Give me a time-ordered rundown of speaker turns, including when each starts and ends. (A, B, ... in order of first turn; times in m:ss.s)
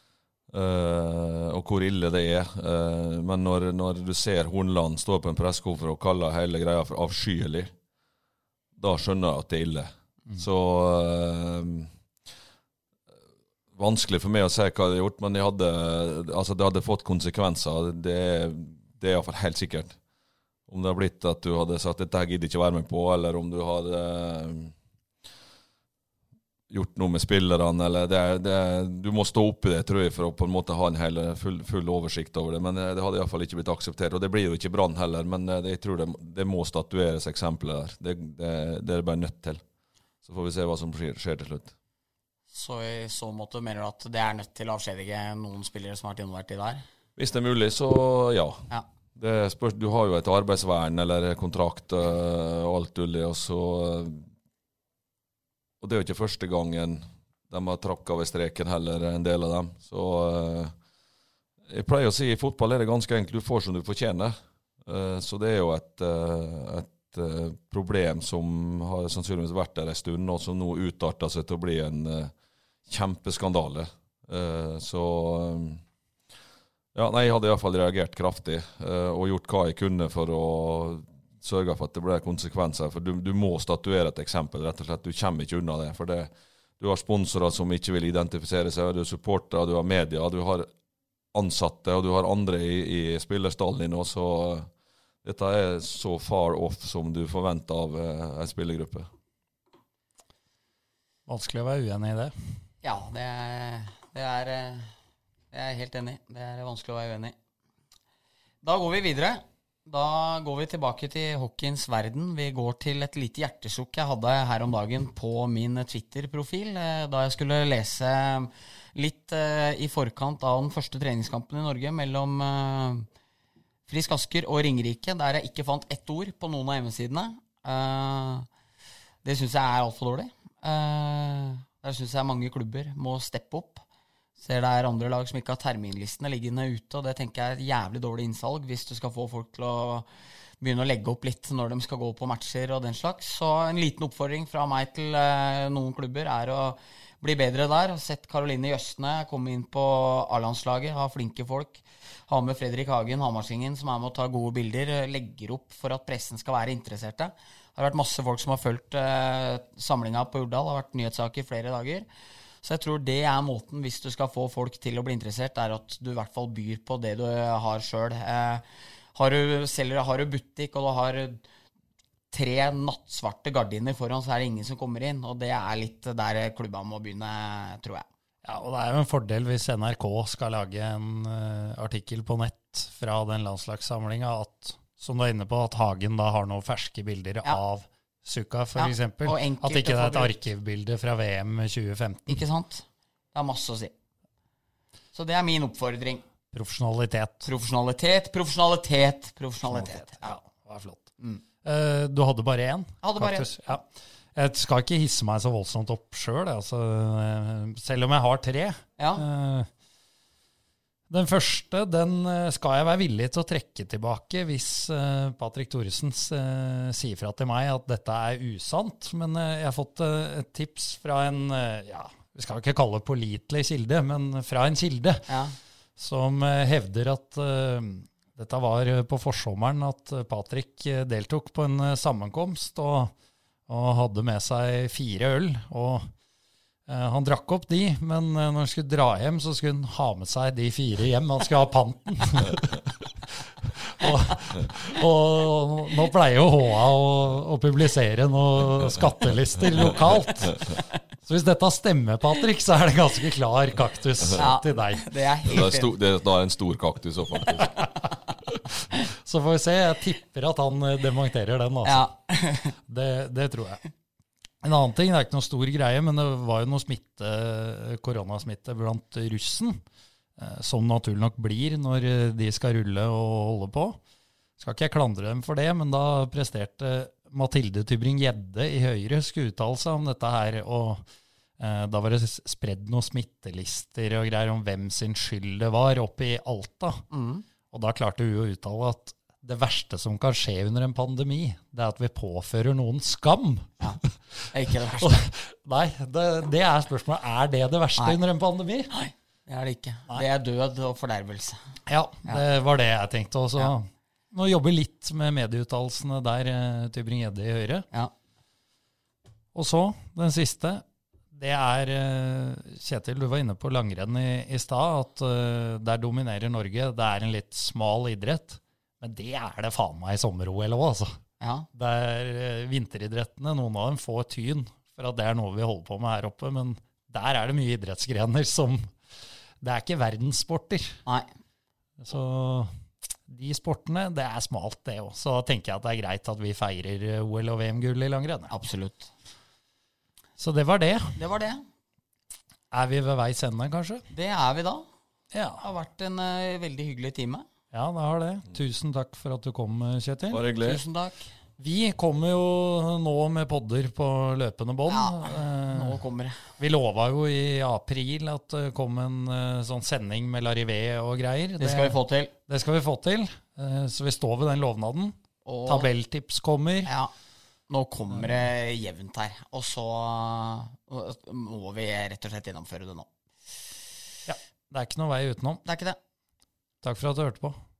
0:00.5-0:07.7 A
0:08.8-0:11.9 A
0:13.7-0:20.0 A
0:20.7-0:24.7 A
0:26.7-0:39.6 A
0:40.2-0:41.7 A
0:42.5-0:46.8 B
0:47.2-0:48.6 A
0:49.2-0:54.3 A
0:55.8-1:00.7 A
1:01.7-1:12.3 A
1:12.9-1:15.8 A
1:16.9-1:30.7 A
1:31.3-1:34.7 A
1:35.2-1:39.1 A
1:41.3-1:42.3 C
1:42.8-1:44.9 B
1:45.5-1:47.3 B
1:48.6-2:03.1 B
2:03.9-2:08.5 B
2:09.2-2:13.8 B
2:14.4-2:20.1 B
2:20.6-2:42.0 B
2:42.6-2:51.4 B
2:52.3-2:58.0 B
2:58.4-3:12.4 C
3:08.8-3:10.3 B
3:12.3-3:13.9 B
3:15.1-3:16.2 B
3:16.5-3:17.5 C
3:17.4-3:20.3 B
3:19.7-3:21.1 C
3:21.6-3:29.7 C
3:23.0-3:23.5 B
3:29.0-3:29.2 B
3:31.1-3:45.3 C
3:45.3-3:45.6 B
3:46.0-3:53.1 C
3:53.7-3:56.1 C
3:56.9-4:02.8 C
4:03.8-4:10.6 C
4:11.2-4:15.0 C
4:14.4-4:15.9 B
4:15.4-4:17.8 A
4:18.9-4:22.0 C
4:21.8-4:22.8 B
4:22.9-4:23.8 C
4:24.6-4:29.8 C
4:30.4-4:34.0 C
4:34.6-4:41.0 C
4:41.6-4:47.0 C
4:47.1-4:47.4 B
4:47.7-4:54.5 C
4:54.5-4:55.2 B
4:55.0-4:58.9 C
4:58.9-5:01.6 B
5:01.9-5:07.9 C
5:09.5-5:21.2 C
5:21.4-5:21.6 B
5:21.7-5:28.9 C
5:29.6-5:31.0 C
5:32.0-5:32.7 C
5:33.3-5:38.5 C
5:38.5-5:39.1 B
5:40.4-5:41.2 C
5:41.2-5:41.6 B
5:42.7-5:44.0 C
5:44.1-5:44.8 B
5:45.3-5:45.6 C
5:45.6-5:47.4 B
5:47.7-5:50.4 C
5:50.3-5:50.8 A
5:50.6-5:51.3 B
5:51.6-5:56.0 C
5:54.9-5:56.4 B
5:56.6-6:01.9 C
6:01.6-6:02.3 B
6:02.5-6:06.9 C
6:05.4-6:05.9 B
6:06.8-6:07.1 B
6:07.7-6:13.0 B
6:14.3-6:15.6 C
6:15.6-6:16.0 B
6:16.8-6:17.6 C